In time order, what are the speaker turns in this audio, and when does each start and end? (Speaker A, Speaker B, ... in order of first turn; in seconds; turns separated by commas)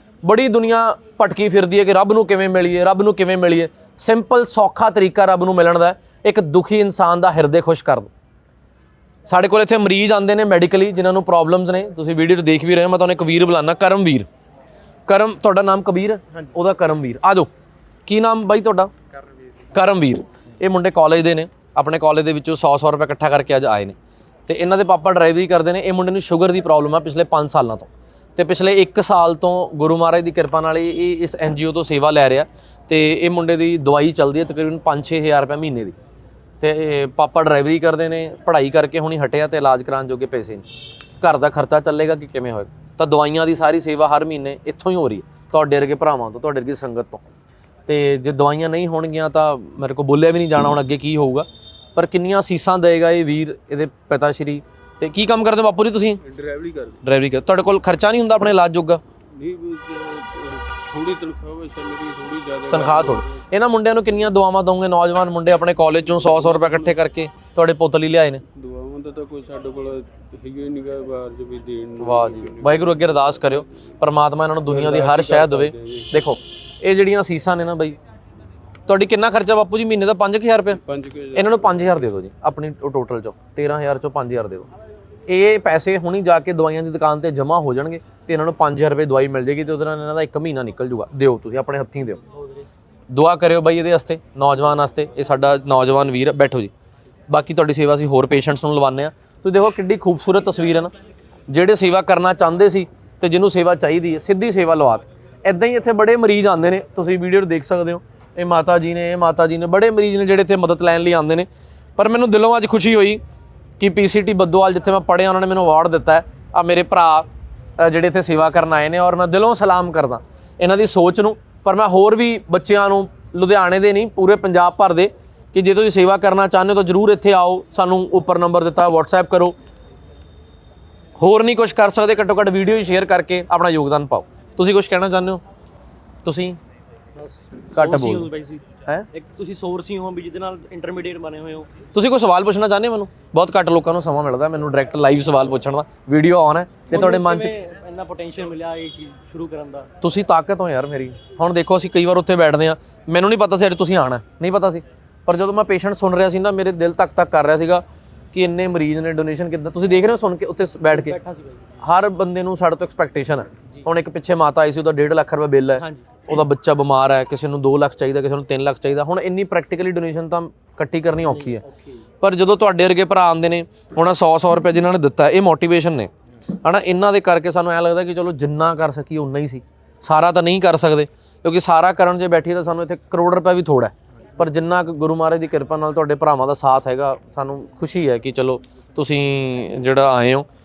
Speaker A: 0.2-8.1, Speaker A: 9.3-14.3, Speaker A: 15.1-17.5, Speaker A: 18.1-18.9, Speaker A: 19.7-24.0, Speaker A: 24.5-36.0, Speaker A: 36.6-40.6, Speaker A: 41.2-47.2, Speaker A: 47.9-56.2, Speaker B: 56.2-57.0, Speaker A: 57.0-59.0, Speaker B: 59.4-63.5, Speaker A: 62.7-68.4, Speaker B: 66.0-67.0, Speaker B: 68.5-73.8, Speaker A: 72.0-78.0, Speaker B: 74.7-76.3, Speaker A: 78.9-80.8, Speaker B: 80.8-82.0, Speaker A: 81.3-84.7, Speaker A: 85.3-92.2, Speaker A: 93.1-96.7, Speaker A: 97.3-100.9, Speaker A: 101.5-113.2, Speaker A: 113.8-117.3, Speaker A: 117.8-129.6, Speaker A: 131.2-135.4, Speaker A: 136.2-136.6, Speaker C: 137.2-141.7, Speaker A: 137.7-138.3, Speaker A: 141.9-147.5, Speaker C: 146.9-149.9, Speaker A: 150.0-161.2, Speaker C: 160.9-161.7, Speaker A: 161.8-171.6, Speaker C: 165.8-166.1, Speaker C: 171.3-172.0, Speaker A: 172.2-176.1, Speaker A: 176.6-190.5